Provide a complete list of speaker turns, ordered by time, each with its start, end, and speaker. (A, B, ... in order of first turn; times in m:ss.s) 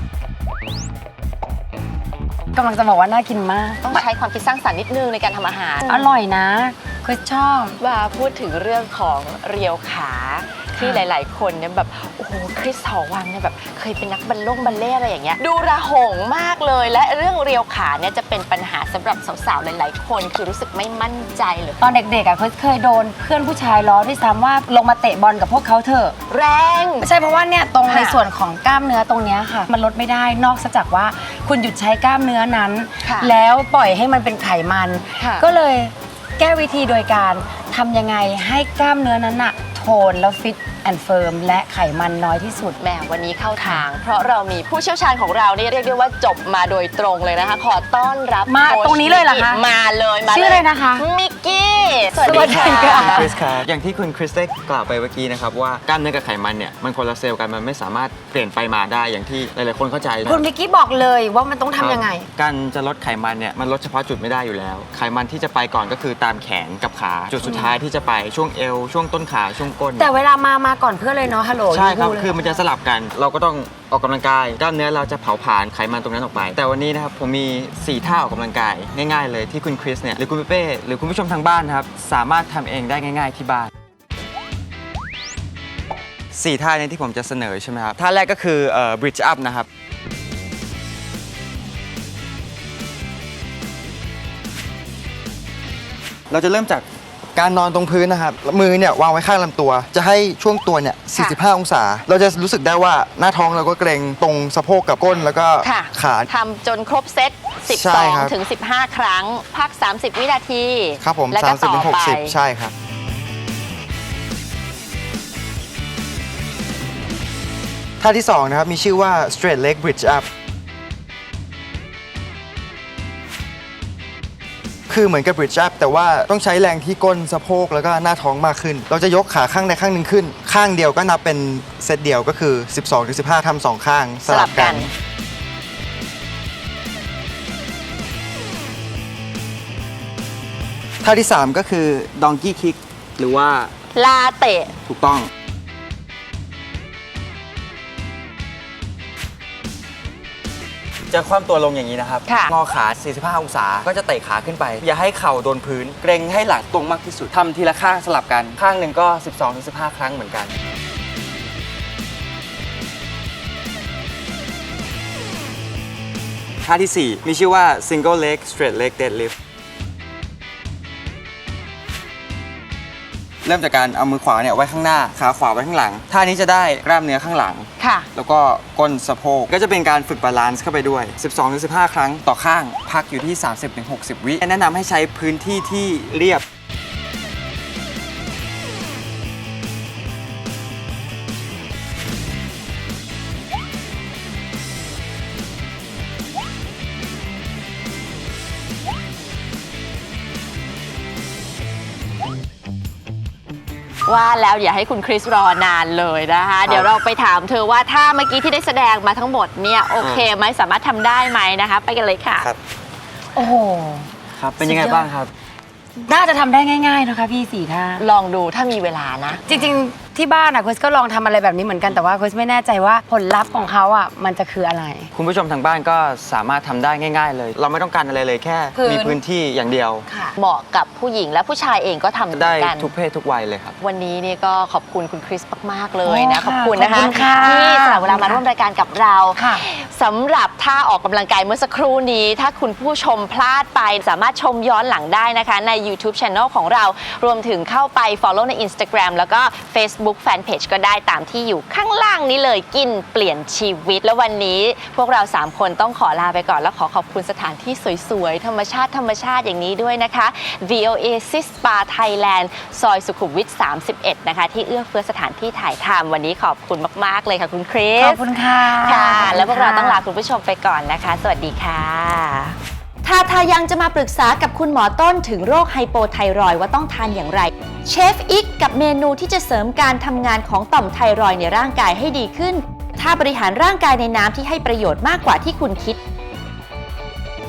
0:02.5-0:04.0 A
0:03.8-0:06.0 B
0:05.9-0:07.8 A
0:07.8-0:21.8 B
0:10.8-0:11.0 A
0:21.8-0:26.2 A
0:26.3-0:27.1 B
0:27.0-0:42.8 A
0:27.9-0:28.2 B
0:33.0-0:33.3 B
0:35.1-0:35.4 B
0:42.8-0:53.3 B
0:48.5-0:49.6 A
0:50.3-0:51.0 A
0:52.2-0:53.4 A
0:52.2-1:00.4 C
1:00.2-1:02.3 A
1:01.8-1:10.1 C
1:07.4-1:07.8 A
1:10.0-1:12.6 A
1:11.7-1:23.7 C
1:26.3-1:29.7 C
1:36.3-1:36.8 C
1:37.3-1:46.3 D
1:41.1-1:41.4 B
1:45.6-1:52.3 B
1:47.7-1:48.3 D
1:51.0-1:52.7 D
1:58.0-2:00.2 D
2:04.9-2:14.9 D
2:14.3-2:14.9 B
2:21.0-2:21.7 D
2:21.7-2:23.7 C
2:23.9-2:24.7 B
2:24.8-2:25.3 C
2:31.1-2:40.5 C
2:32.2-2:32.5 B
2:46.6-2:49.3 C
2:53.4-3:06.4 C
2:57.8-2:58.1 B
3:24.0-3:32.5 B
3:26.6-3:26.9 C
3:30.0-3:30.3 C
3:33.3-3:35.1 A
3:34.3-3:35.3 C
3:36.0-3:38.0 A
3:38.0-3:39.4 B
3:39.5-3:45.1 A
3:45.1-3:50.0 C
3:48.7-3:49.2 A
3:50.1-3:50.3 A
3:50.4-3:52.9 B
3:52.3-3:53.8 C
3:53.8-4:46.0 B
3:56.0-3:58.4 A
3:59.4-3:59.6 A
4:28.0-4:30.0 A